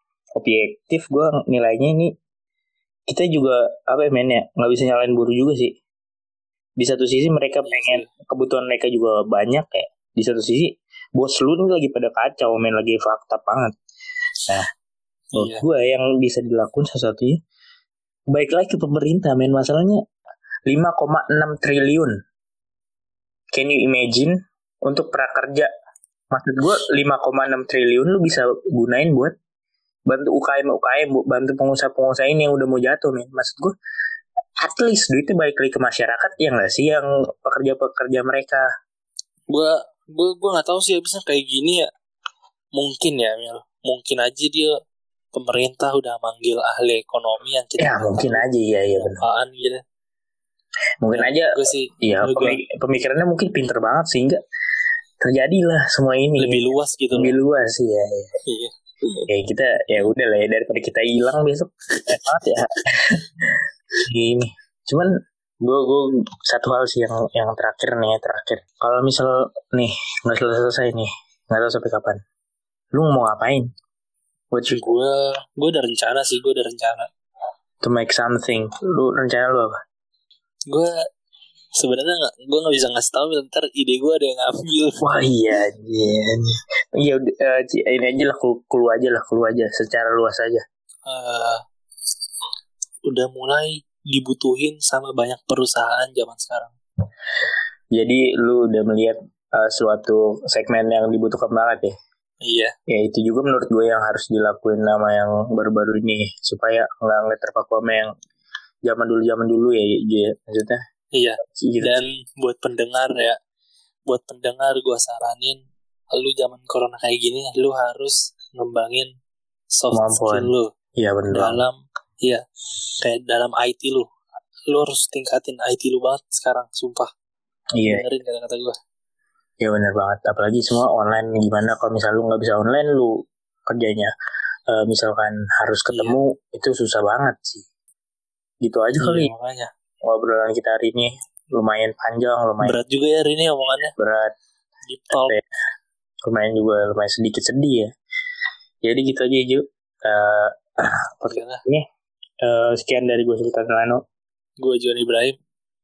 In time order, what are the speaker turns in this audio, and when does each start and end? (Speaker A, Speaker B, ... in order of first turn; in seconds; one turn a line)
Speaker A: 0.4-2.1
Speaker A: 3.1-5.8
Speaker A: 6.8-13.7
Speaker B: 7.7-8.1
Speaker B: 15.3-15.7
Speaker A: 15.4-17.4
Speaker A: 18.3-20.0
Speaker A: 20.7-22.1
Speaker A: 23.5-24.3
Speaker A: 24.9-25.7
Speaker A: 26.3-29.3
Speaker A: 30.1-33.7
Speaker A: 34.6-38.7
Speaker B: 39.5-41.9
Speaker B: 42.8-44.8
Speaker B: 45.3-49.8
Speaker A: 47.8-49.2
Speaker A: 51.0-54.4
Speaker B: 51.1-52.6
Speaker A: 55.2-56.6
Speaker B: 56.4-57.4
Speaker A: 57.2-58.3
Speaker B: 58.5-59.3
Speaker A: 59.3-65.1
Speaker A: 65.6-72.2
Speaker A: 72.9-73.7
Speaker A: 74.5-74.9
Speaker B: 74.7-77.1
Speaker A: 77.8-79.8
Speaker B: 81.8-85.0
Speaker A: 85.0-90.6
Speaker B: 91.1-91.6
Speaker B: 93.1-96.7
Speaker A: 97.9-101.9
Speaker B: 102.4-102.7
Speaker A: 102.9-108.1
Speaker A: 108.9-110.8
Speaker B: 111.2-113.4
Speaker A: 111.4-112.0
Speaker B: 114.1-115.6
Speaker B: 116.1-119.1
Speaker B: 119.7-120.7
Speaker A: 119.9-121.6
Speaker B: 121.3-122.4
Speaker B: 123.0-124.1
Speaker B: 124.7-127.1
Speaker A: 127.8-128.1
Speaker B: 127.9-128.8
Speaker A: 129.6-134.1
Speaker A: 134.7-137.6
Speaker B: 135.9-136.2
Speaker A: 138.6-139.3
Speaker B: 139.0-139.7
Speaker A: 140.0-142.8
Speaker B: 142.6-143.9
Speaker A: 144.0-144.3
Speaker B: 144.9-145.3
Speaker A: 145.1-145.4
Speaker A: 146.2-147.9
Speaker A: 148.8-151.9
Speaker B: 151.3-151.6
Speaker A: 152.4-154.0
Speaker B: 154.6-155.4